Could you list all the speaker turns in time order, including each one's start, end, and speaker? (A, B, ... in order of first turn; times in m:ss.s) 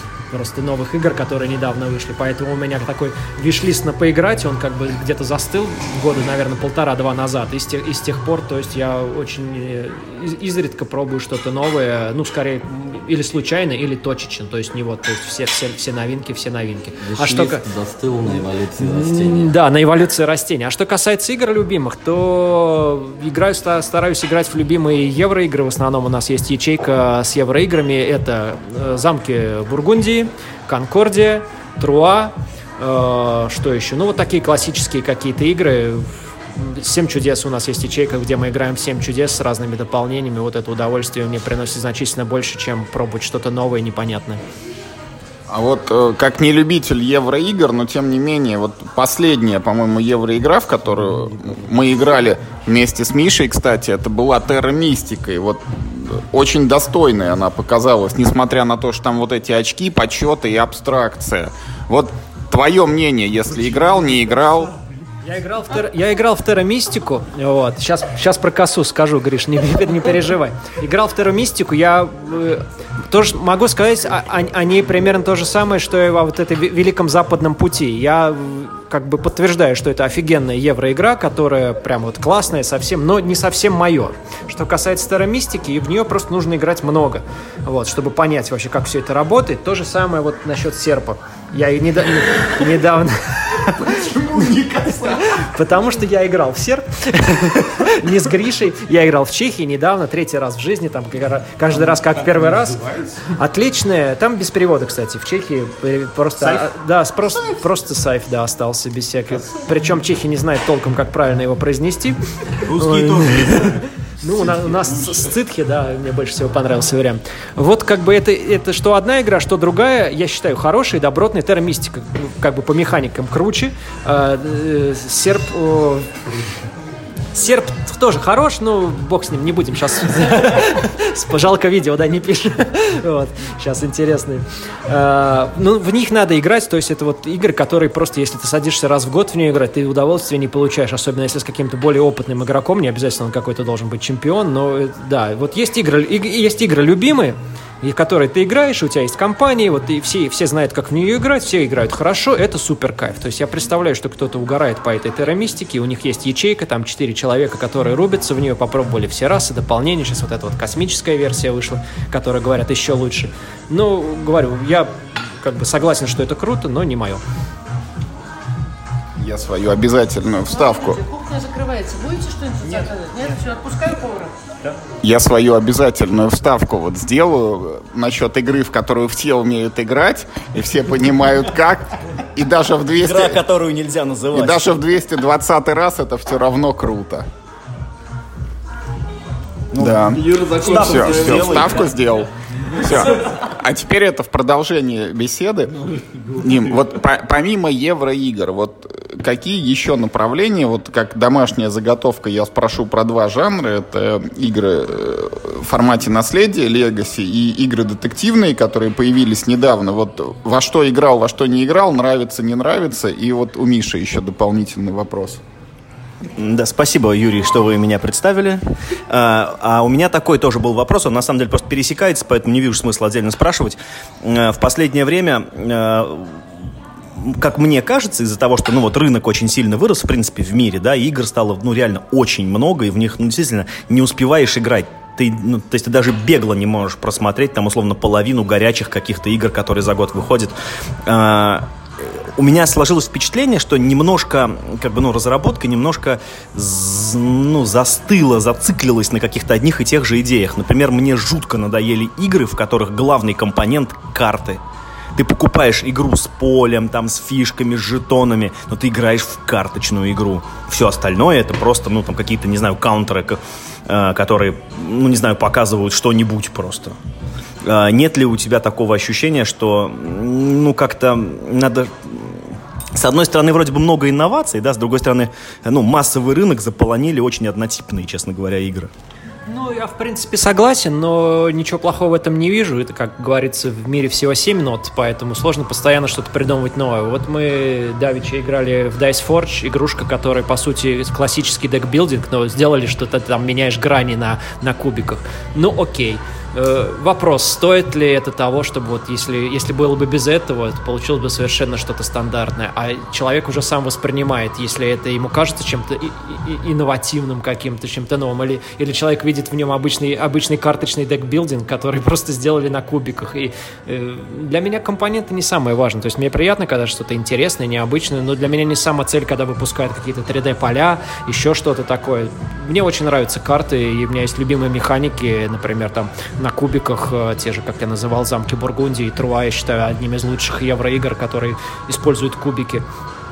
0:00.3-0:17.6 A
0:17.0-0:19.5 B
0:18.3-0:44.4 A
0:45.5-1:04.8 C
1:05.2-2:06.1 A
1:52.7-1:53.8 D
2:07.3-2:47.2 A
2:49.2-2:51.0 C
2:50.5-2:54.3 E
2:55.0-3:03.4 C
3:03.0-3:04.7 D
3:04.3-3:07.3 C
3:09.7-3:12.0 D
3:09.8-3:35.4 C
3:36.4-3:46.4 D
3:47.2-4:14.6 D
4:15.2-4:27.0 D
4:27.6-4:38.9 D
4:39.5-5:32.9 A